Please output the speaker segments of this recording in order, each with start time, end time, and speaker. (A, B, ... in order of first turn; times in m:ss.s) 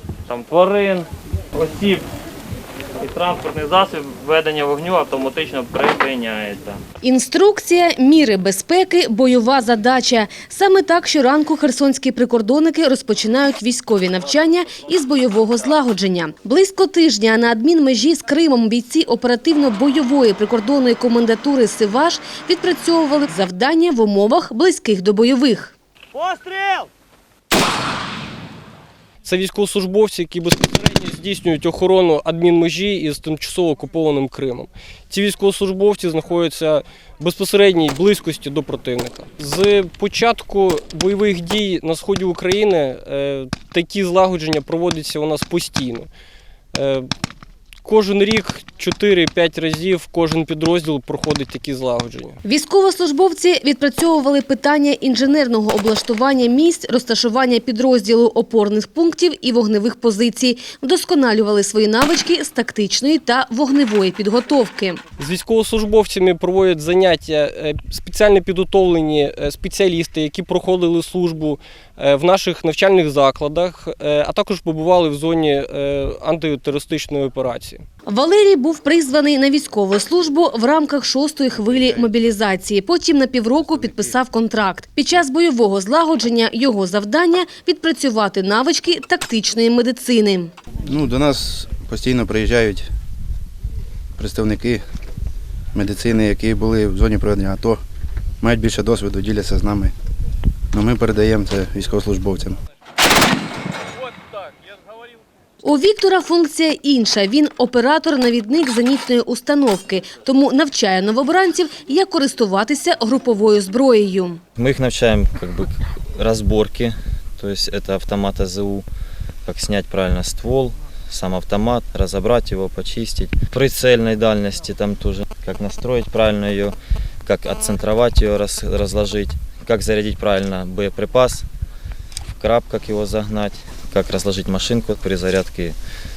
0:00.3-0:02.0 A
0:03.0-0:06.8 A
0:07.0-0:25.7 B
0:26.2-0:26.8 A
0:29.2-0:46.1 C
0:46.7-0:47.1 C
0:47.8-0:52.4 C
0:52.4-1:05.0 B
1:05.2-1:17.8 C
1:18.1-1:30.5 B
1:23.9-1:24.1 D
1:30.8-1:32.9 D
1:34.2-1:34.8 D
1:35.7-1:37.8 D
1:38.4-1:39.9 D
1:40.7-1:42.6 D
1:45.6-1:54.4 B
1:54.6-1:58.8 E
1:59.4-2:11.5 E
2:12.4-2:15.8 E